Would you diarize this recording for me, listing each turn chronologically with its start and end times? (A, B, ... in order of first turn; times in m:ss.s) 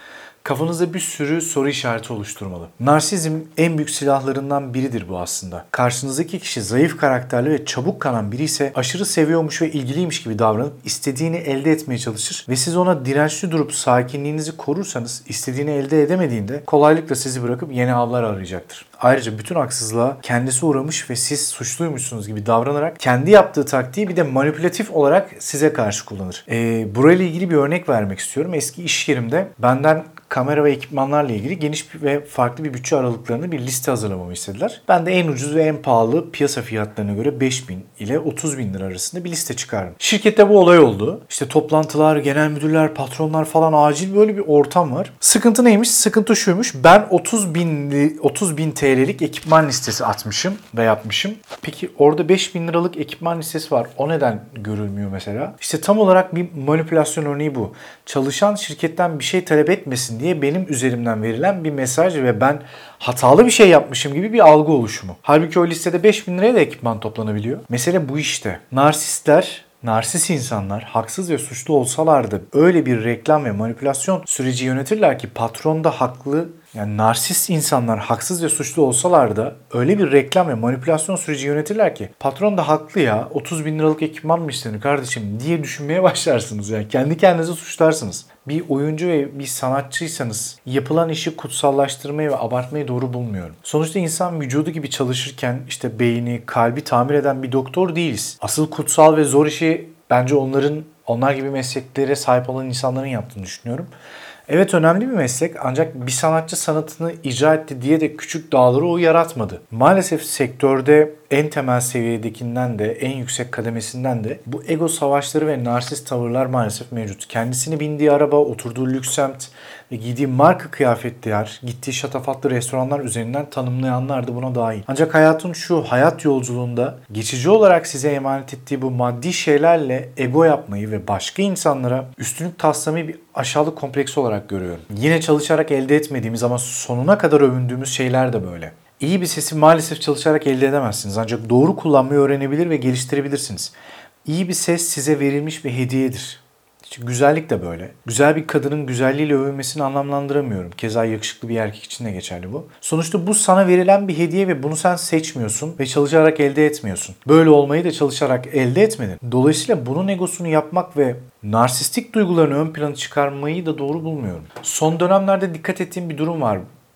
0:00.4-1:43.9 A
1:44.5-2:23.7 A
2:24.2-2:46.6 A